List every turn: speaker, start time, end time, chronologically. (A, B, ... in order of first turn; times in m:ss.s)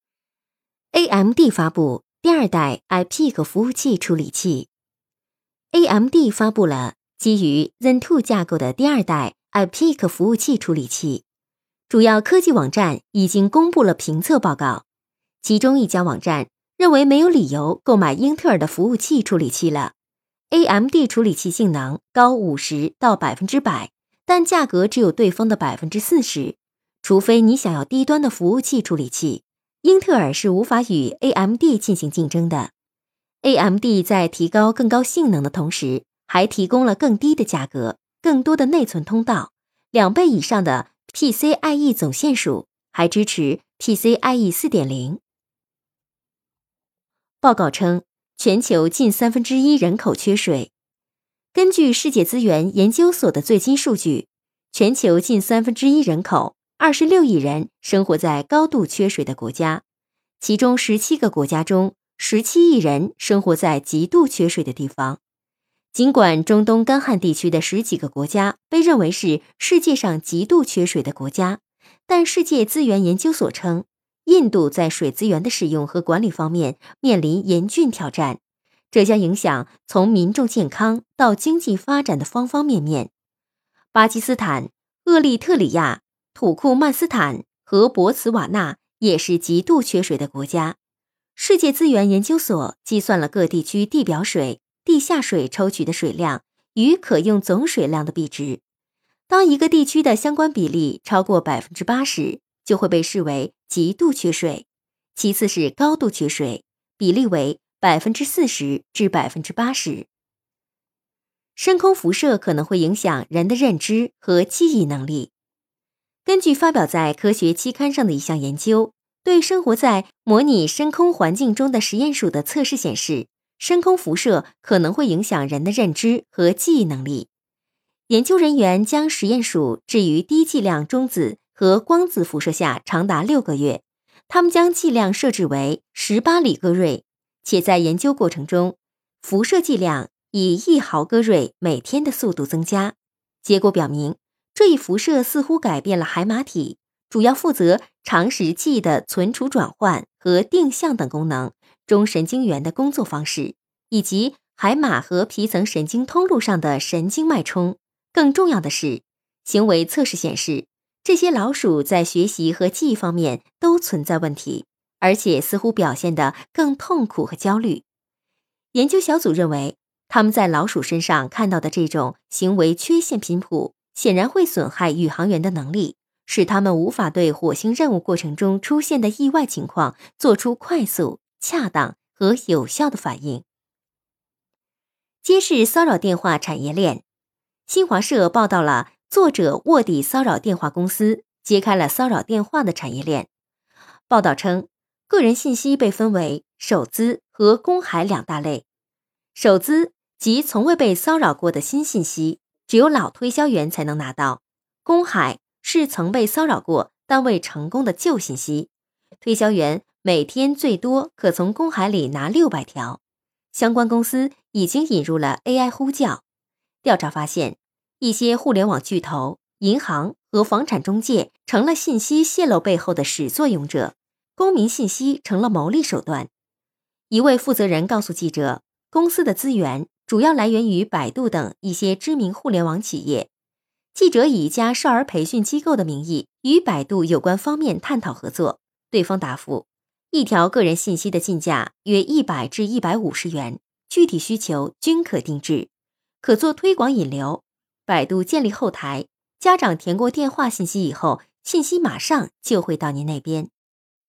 0:00.9-0:04.7 A
0:05.7-0:11.2 A
0:11.9-0:14.8 A
0:15.4-0:19.9 A
0:20.5-0:32.7 A
0:33.4-0:45.2 A
0:47.4-0:50.7 A
0:51.5-0:59.8 A
1:00.4-1:05.2 A
1:05.9-1:18.4 A
1:18.9-1:23.1 A
1:23.9-1:30.8 A
1:31.4-1:38.6 A
1:39.3-1:50.1 A
1:51.6-1:55.3 A
1:56.3-2:07.3 A
2:08.1-2:47.8 A
2:48.7-3:03.4 A
3:05.2-3:07.0 A
3:07.7-3:13.3 A
3:14.1-3:18.6 A
3:19.3-3:28.7 A
3:29.2-3:33.0 A
3:33.5-3:36.2 A
3:36.8-3:46.3 A
3:47.1-3:53.3 A
3:54.0-4:05.7 A
4:06.2-4:13.5 A